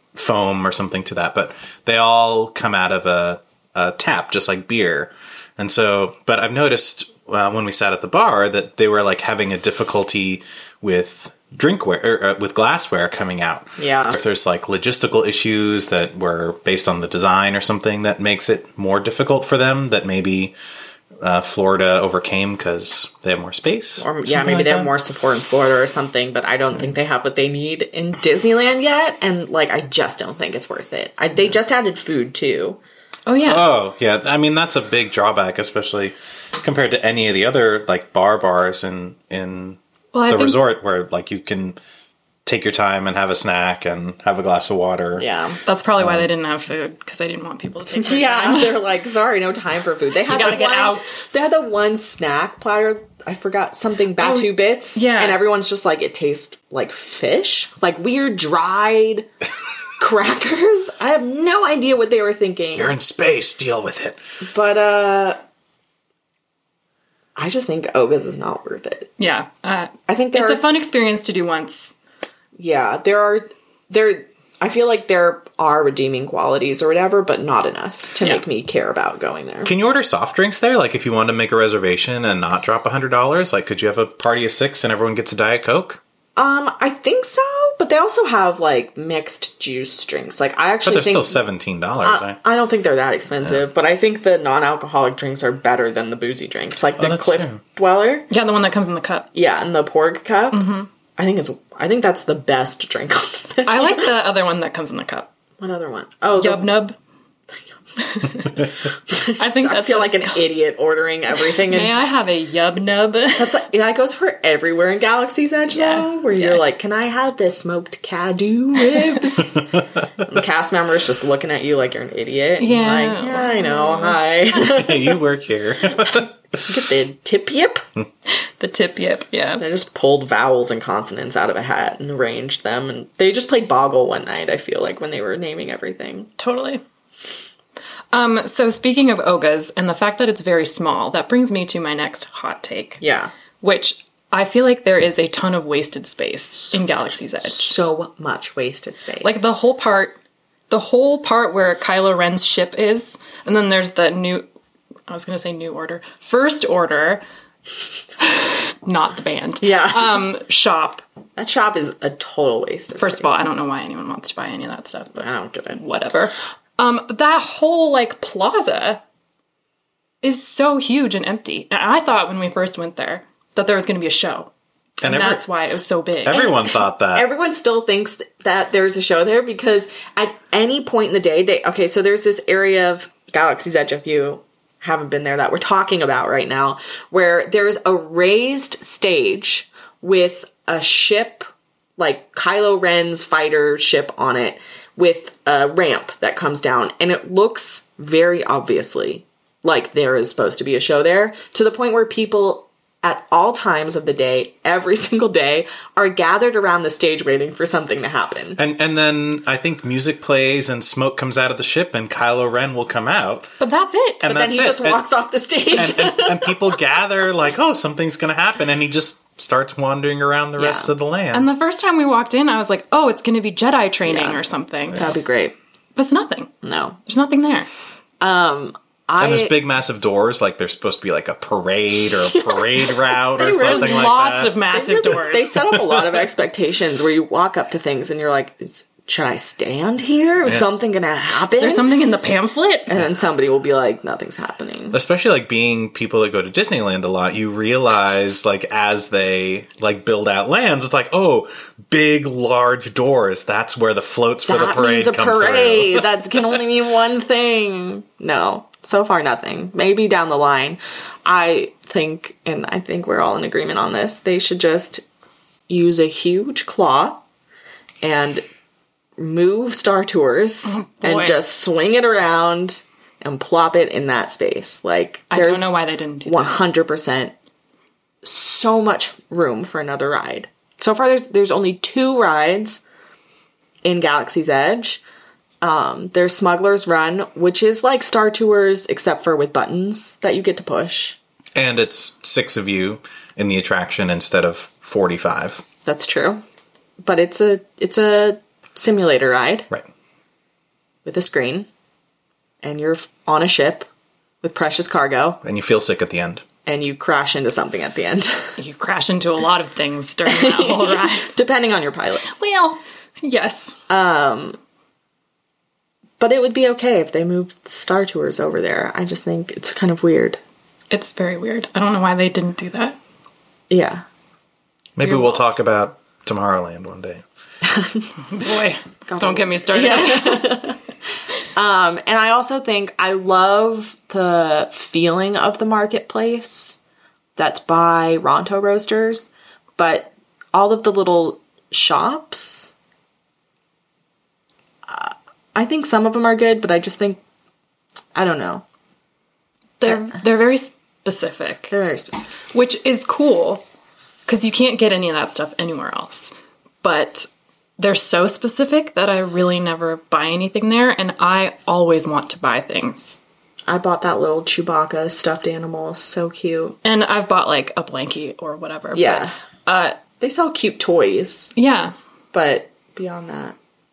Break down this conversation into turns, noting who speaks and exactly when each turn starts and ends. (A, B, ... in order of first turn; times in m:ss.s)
0:00.2-0:20.6 A
0:13.8-0:14.2 B
0:21.2-0:24.9 A
0:24.0-0:32.8 B
0:33.3-0:33.7 C
0:33.4-0:41.8 A
0:40.1-0:40.6 C
0:42.4-0:45.2 A
0:45.2-0:45.6 B
0:45.7-0:48.8 C
0:47.9-0:59.3 B
0:50.3-0:51.2 C
0:54.2-0:55.4 C
1:00.0-1:03.0 B
1:02.8-1:04.2 A
1:04.5-1:05.4 B
1:07.4-1:09.1 B
1:09.2-1:11.9 C
1:10.1-1:10.8 B
1:12.6-1:19.7 B
1:19.6-1:26.0 A
1:26.4-1:31.4 B
1:30.8-1:32.4 A
1:32.0-1:38.3 B
1:37.0-1:37.6 A
1:38.3-1:39.3 C
1:39.3-1:44.1 B
1:40.5-1:40.9 C
1:43.6-1:45.3 C
1:45.6-1:46.7 B
1:46.4-1:47.0 C
1:48.0-1:48.6 C
1:49.1-1:52.0 B
1:49.2-1:50.5 C
1:51.4-1:53.5 C
1:53.3-2:05.2 B
1:55.7-1:56.6 C
2:02.6-2:04.2 C
2:04.5-2:06.4 A
2:06.6-2:07.8 B
2:08.3-2:09.6 C
2:09.6-2:16.3 B
2:16.4-2:16.8 C
2:18.1-2:23.0 C
2:23.0-2:23.3 B
2:23.6-2:27.7 C
2:27.4-2:29.4 B
2:29.2-2:30.2 C
2:30.7-2:34.5 C
2:35.1-2:37.2 C
2:38.2-2:41.0 C
2:39.6-2:40.3 B
2:41.4-2:43.3 B
2:43.0-2:49.0 C
2:45.2-2:45.8 B
2:50.2-2:54.5 C
2:55.0-2:55.4 A
2:55.0-2:56.6 C
2:56.2-2:57.3 A
2:57.1-3:28.6 B
3:28.6-3:33.5 A
3:33.6-3:34.3 C
3:34.2-3:35.0 A
3:34.2-3:36.7 B
3:35.7-3:41.5 A
3:40.6-3:40.9 B
3:41.3-3:45.1 C
3:44.0-3:44.4 B
3:44.9-3:45.6 B
3:46.0-3:46.5 C
3:46.6-3:47.0 B
3:47.1-3:47.7 C
3:48.2-3:49.6 B
3:49.2-3:54.6 A
3:52.3-4:01.9 B
3:53.5-3:55.5 C
3:55.7-3:56.2 A
4:01.5-4:02.9 C
4:02.9-4:05.0 B
4:04.9-4:16.1 A
4:14.5-4:25.0 B
4:25.7-4:27.2 B
4:28.0-4:28.4 B
4:29.2-4:35.7 B
4:30.7-4:31.4 C
4:35.3-4:36.6 C
4:36.2-4:37.3 B
4:38.2-4:42.8 B
4:43.8-4:45.0 B
4:45.6-4:51.2 B
4:51.6-4:55.6 A
4:55.8-4:56.4 B
4:57.0-4:59.7 B
5:01.0-5:01.7 B
5:02.6-5:03.9 B
5:04.4-5:05.4 B
5:05.4-5:06.4 A
5:06.7-5:08.6 B
5:08.6-5:11.3 C
5:10.3-5:12.4 B
5:12.3-5:13.8 C
5:13.9-5:14.6 B
5:16.2-5:20.4 B
5:20.9-5:23.0 C
5:23.7-5:24.0 B
5:25.0-5:27.2 A
5:25.0-5:25.5 C
5:27.6-5:28.1 B
5:28.3-5:30.6 C
5:29.1-5:30.8 B
5:31.6-5:36.8 B
5:37.4-5:42.7 B
5:44.9-5:47.2 B
5:48.2-5:48.6 B
5:49.8-5:51.7 C
5:51.7-5:52.3 B
5:52.5-5:53.6 C
5:54.3-5:56.3 C
5:56.8-6:03.2 C
6:03.7-6:06.8 B
6:06.8-6:10.0 C
6:08.9-6:09.3 B
6:10.2-6:11.5 B
6:11.6-6:11.9 C
6:12.3-6:13.6 B